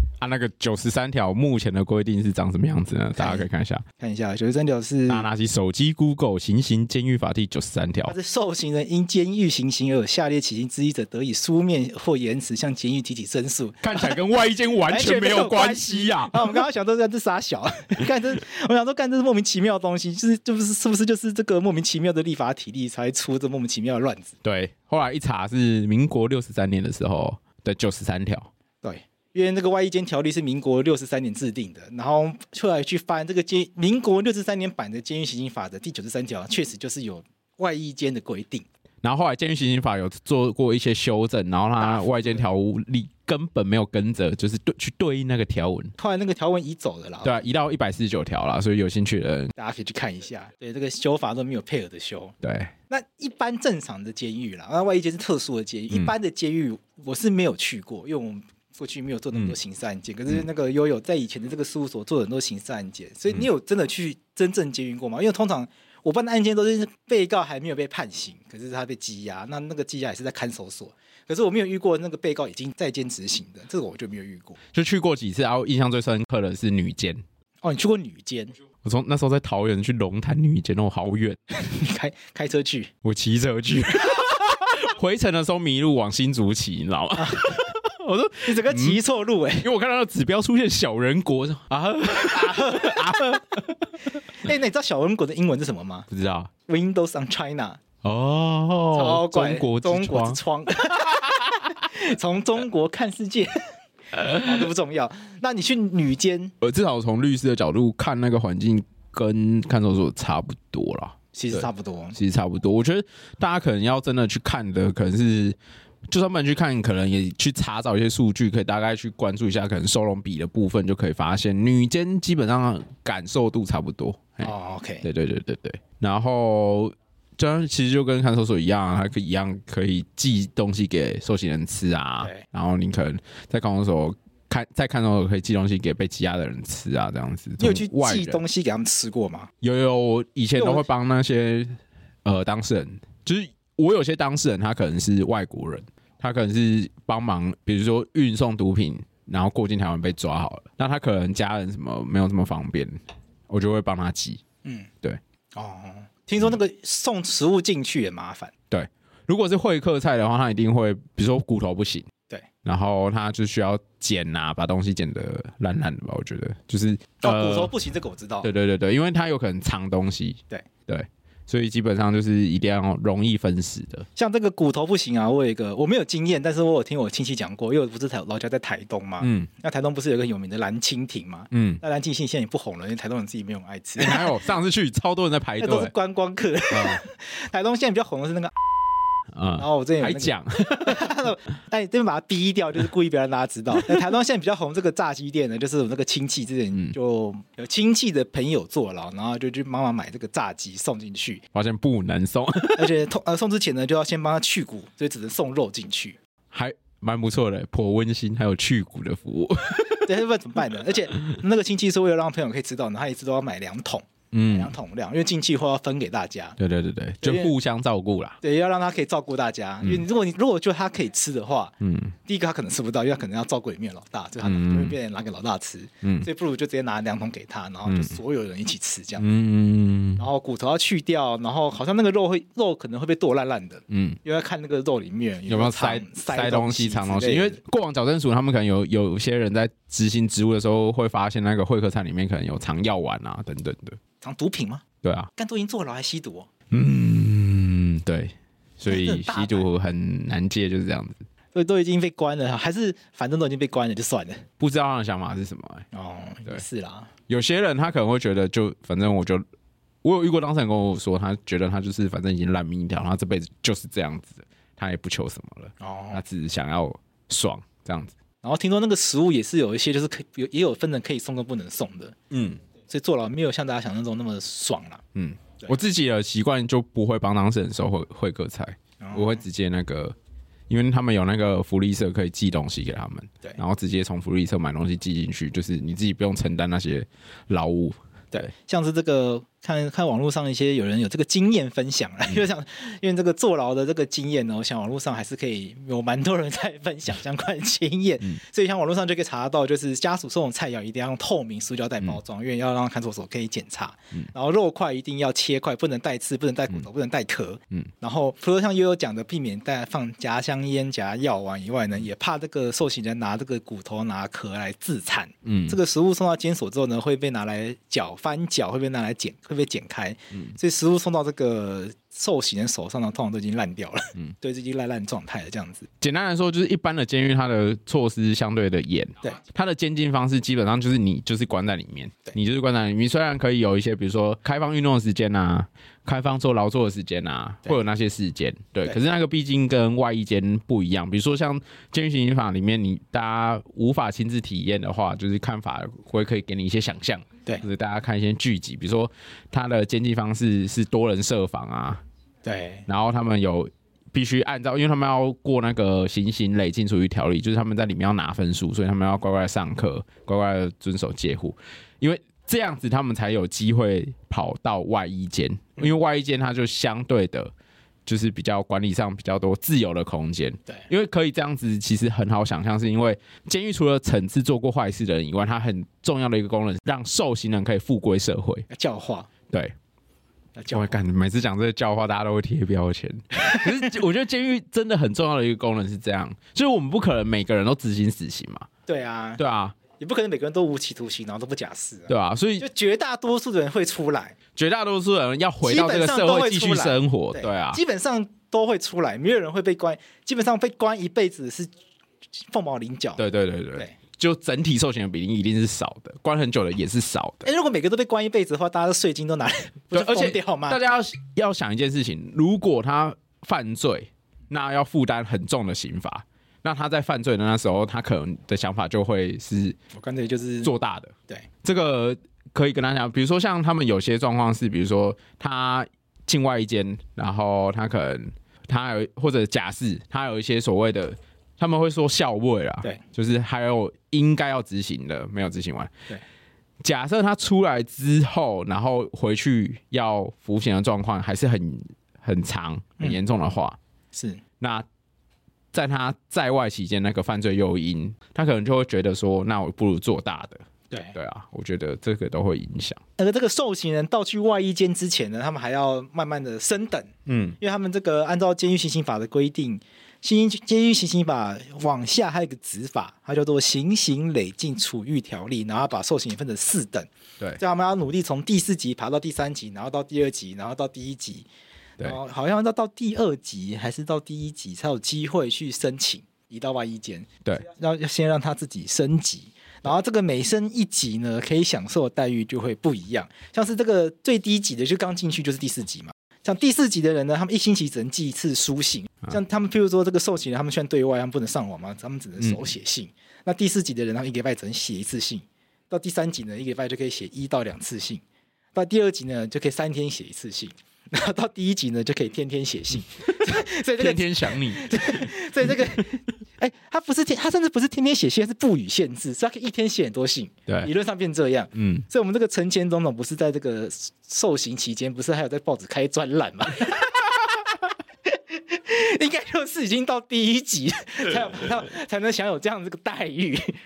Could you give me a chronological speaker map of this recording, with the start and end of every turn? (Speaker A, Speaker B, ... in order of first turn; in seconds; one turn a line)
Speaker A: 0.2-3.8
Speaker B: 3.2-3.5
Speaker B: 4.0-5.3
Speaker A: 5.1-8.1
Speaker B: 8.1-14.2
Speaker A: 13.8-16.6
Speaker B: 14.9-24.3
Speaker A: 24.4-28.5
Speaker B: 28.8-38.6
Speaker A: 39.0-45.9
Speaker B: 41.8-42.5
Speaker B: 46.0-47.5
Speaker A: 47.2-49.5
Speaker B: 49.5-52.4
Speaker A: 52.4-52.7
Speaker B: 52.9-74.6
Speaker A: 74.7-77.2
Speaker B: 77.6-78.5
Speaker A: 78.8-81.4
Speaker B: 81.5-82.9
Speaker A: 83.0-89.0
Speaker B: 87.2-87.6
Speaker B: 88.4-89.7
Speaker A: 89.6-93.9
Speaker B: 92.1-93.4
Speaker B: 94.4-96.1
Speaker A: 96.1-96.5
Speaker B: 96.7-97.8
Speaker A: 98.0-100.4
Speaker B: 98.9-103.6
Speaker A: 104.1-104.5
Speaker B: 104.4-106.5
Speaker A: 106.6-115.6
Speaker B: 111.3-112.2
Speaker A: 116.1-124.5
Speaker B: 124.4-125.0
Speaker A: 125.0-138.4
Speaker B: 137.6-139.5
Speaker A: 139.6-153.0
Speaker B: 140.6-140.8
Speaker A: 153.5-154.4
Speaker B: 154.6-154.9
Speaker B: 155.5-158.5
Speaker A: 158.7-162.1
Speaker A: 162.6-167.7
Speaker B: 167.2-168.5
Speaker A: 168.4-174.1
Speaker B: 174.2-184.4
Speaker A: 179.2-179.5
Speaker A: 181.5-181.8
Speaker A: 184.0-185.9
Speaker B: 185.6-188.5
Speaker A: 186.7-187.0
Speaker A: 189.3-191.2
Speaker B: 189.6-201.4
Speaker A: 201.5-203.0
Speaker B: 202.8-206.2
Speaker A: 206.5-210.2
Speaker B: 210.0-216.6
Speaker A: 214.3-214.7
Speaker A: 216.6-218.4
Speaker B: 217.2-217.5
Speaker B: 218.4-221.7
Speaker A: 221.8-222.1
Speaker B: 222.2-229.3
Speaker A: 224.4-224.9
Speaker A: 226.0-226.3
Speaker A: 227.9-228.2
Speaker A: 229.2-230.2
Speaker B: 230.2-237.6
Speaker A: 233.9-234.2
Speaker A: 235.5-244.0
Speaker B: 244.2-244.8
Speaker A: 245.0-245.3
Speaker B: 245.3-246.5
Speaker A: 246.7-251.2
Speaker B: 248.9-249.7
Speaker B: 251.5-254.5
Speaker A: 254.6-255.8
Speaker B: 255.9-257.1
Speaker A: 257.3-259.4
Speaker A: 260.0-268.1
Speaker B: 265.8-266.2
Speaker B: 268.4-272.2
Speaker A: 272.3-272.6
Speaker B: 272.9-275.0
Speaker A: 275.1-280.1
Speaker B: 279.0-279.4
Speaker A: 280.7-288.5
Speaker B: 288.3-325.9
Speaker A: 315.4-315.8
Speaker A: 326.0-352.0
Speaker B: 352.4-352.9
Speaker A: 352.9-367.5
Speaker A: 368.1-378.7
Speaker B: 378.7-379.3
Speaker B: 380.5-381.0
Speaker A: 380.7-388.7
Speaker B: 383.5-383.9
Speaker B: 388.9-389.4
Speaker A: 389.4-389.8
Speaker B: 389.9-394.4
Speaker A: 392.1-392.6
Speaker A: 394.5-397.8
Speaker B: 395.6-401.7
Speaker B: 402.3-403.2
Speaker A: 403.2-407.5
Speaker B: 407.4-410.8
Speaker A: 409.9-419.8
Speaker B: 419.9-420.7
Speaker A: 420.6-435.9
Speaker A: 436.8-443.8
Speaker B: 444.1-444.4
Speaker A: 444.6-444.9
Speaker A: 445.7-453.0
Speaker B: 450.9-451.1
Speaker B: 453.2-471.5
Speaker A: 457.3-457.6
Speaker B: 472.0-498.2
Speaker B: 498.7-523.8
Speaker A: 503.4-506.0
Speaker A: 511.7-512.0